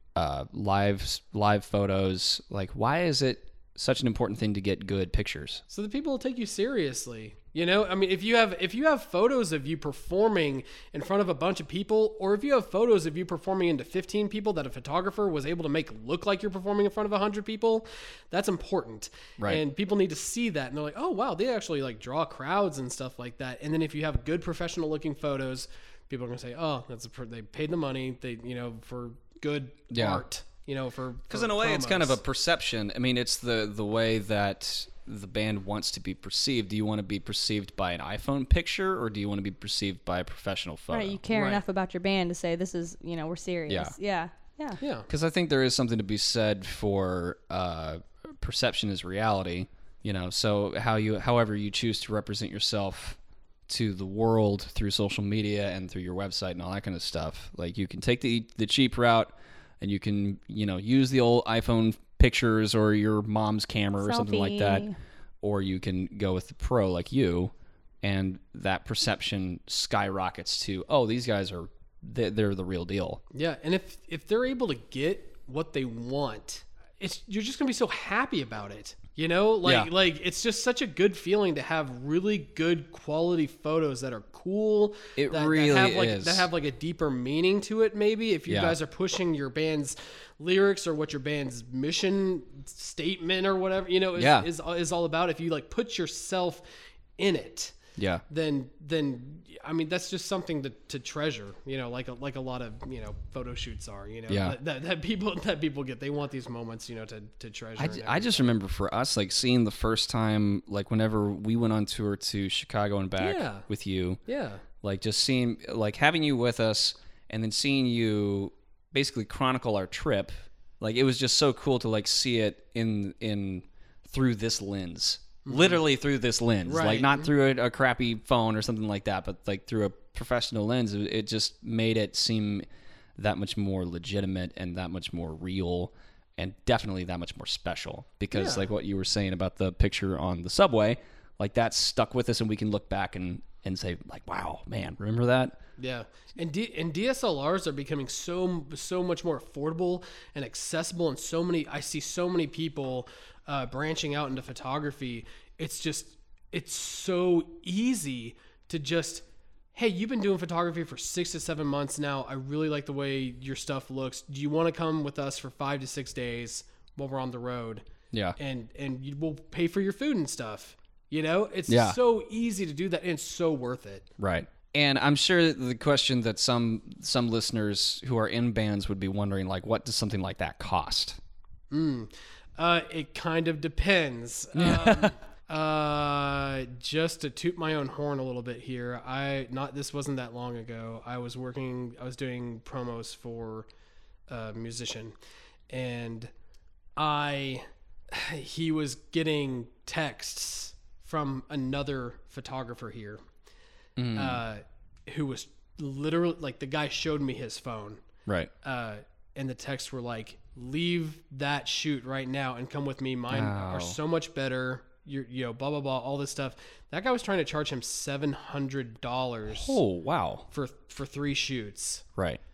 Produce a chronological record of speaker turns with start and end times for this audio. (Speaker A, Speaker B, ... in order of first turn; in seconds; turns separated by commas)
Speaker A: 0.1-5.6, Speaker B: 5.7-32.2, Speaker A: 29.9-30.2, Speaker A: 31.3-41.2, Speaker C: 40.9-44.8, Speaker B: 41.3-41.6, Speaker A: 43.7-43.9, Speaker B: 44.8-45.1, Speaker A: 45.1-64.8, Speaker C: 64.0-64.9, Speaker A: 65.4-73.2, Speaker B: 73.3-96.6, Speaker A: 79.6-79.9, Speaker A: 85.2-86.5, Speaker A: 88.5-88.7, Speaker A: 94.2-94.5, Speaker B: 97.2-97.8, Speaker A: 98.0-98.2, Speaker B: 98.3-108.6, Speaker A: 104.3-104.5, Speaker A: 107.8-114.2, Speaker B: 113.2-113.7, Speaker B: 114.2-114.6, Speaker A: 114.8-145.6, Speaker B: 125.5-125.8, Speaker B: 126.6-127.3, Speaker B: 138.3-138.7, Speaker B: 145.8-167.8, Speaker A: 168.1-168.4, Speaker B: 168.4-174.1, Speaker A: 171.7-172.0, Speaker A: 174.2-181.2, Speaker B: 181.7-193.7, Speaker A: 184.5-185.1, Speaker B: 194.3-195.1, Speaker B: 195.7-196.3, Speaker B: 196.9-203.2, Speaker A: 204.0-204.4, Speaker B: 204.1-208.0, Speaker B: 208.6-219.8, Speaker A: 213.3-214.0, Speaker A: 219.5-220.5, Speaker B: 220.5-222.0